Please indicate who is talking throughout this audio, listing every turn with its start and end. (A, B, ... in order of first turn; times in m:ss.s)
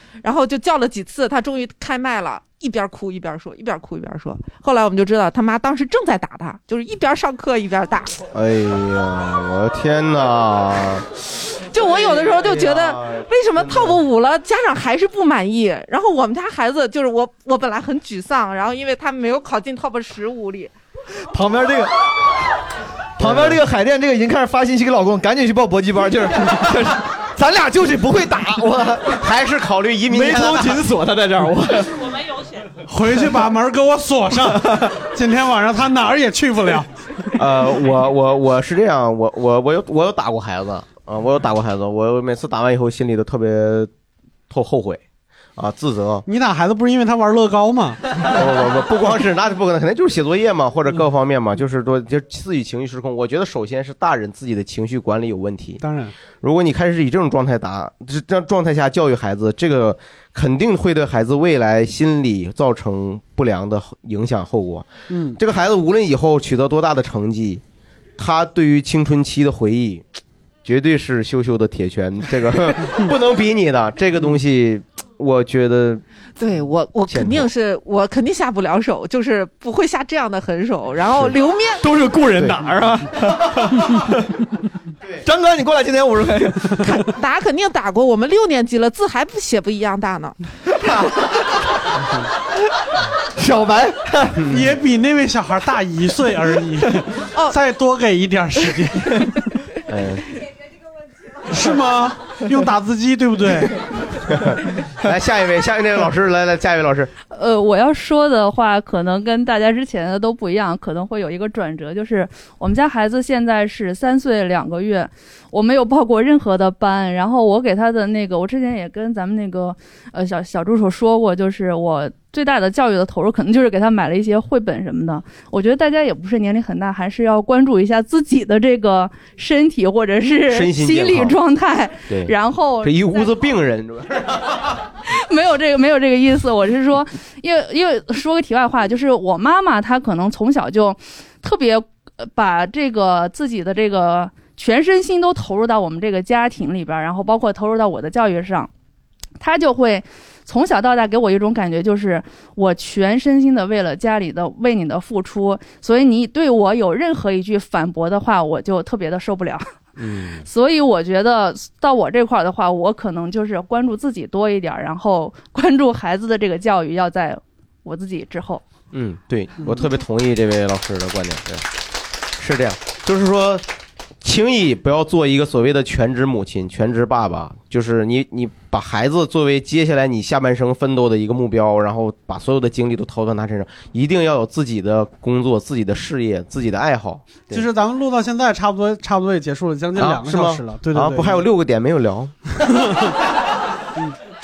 0:00.2-0:08.2 A
0:08.3-0:11.1 B
0:11.7-0:20.7 A
0:11.8-0:14.0 B
0:21.3-0:21.9 C
0:23.2-0:29.3 C
0:23.2-0:23.6 B
0:29.1-0:30.8 B
0:30.1-0:32.1 C
0:32.9-0:36.9 D
0:34.4-0:34.9 C
0:37.4-0:43.9 B
0:44.5-0:45.0 B
0:45.6-0:46.2 B
0:46.3-0:48.0 D
0:48.3-0:55.8 B
0:55.8-0:56.1 D
0:56.4-1:07.6 B
1:05.1-1:05.4 D
1:08.2-1:10.1 B
1:10.6-1:16.0 B
1:16.4-1:21.8 A
1:17.1-1:17.5 B
1:21.8-1:24.4 C
1:22.4-1:22.6 B
1:25.2-1:26.9 C
1:26.9-1:30.3 A
1:30.9-1:31.2 C
1:33.4-1:34.5 C
1:34.5-1:39.3 D
1:39.9-1:40.3 B
1:41.5-1:43.8 D
1:44.3-1:47.1 B
1:47.3-2:13.4 E
2:10.5-2:11.4 B
2:12.1-2:14.6 B
2:15.0-2:28.7 E
2:29.4-2:39.7 E
2:40.0-2:40.5 B
2:40.4-2:48.6 E
2:48.9-2:51.6 B
2:52.4-2:53.6 B
2:54.2-3:07.7 B
3:07.5-3:11.4 D
3:10.0-3:12.4 B
3:12.7-3:13.1 D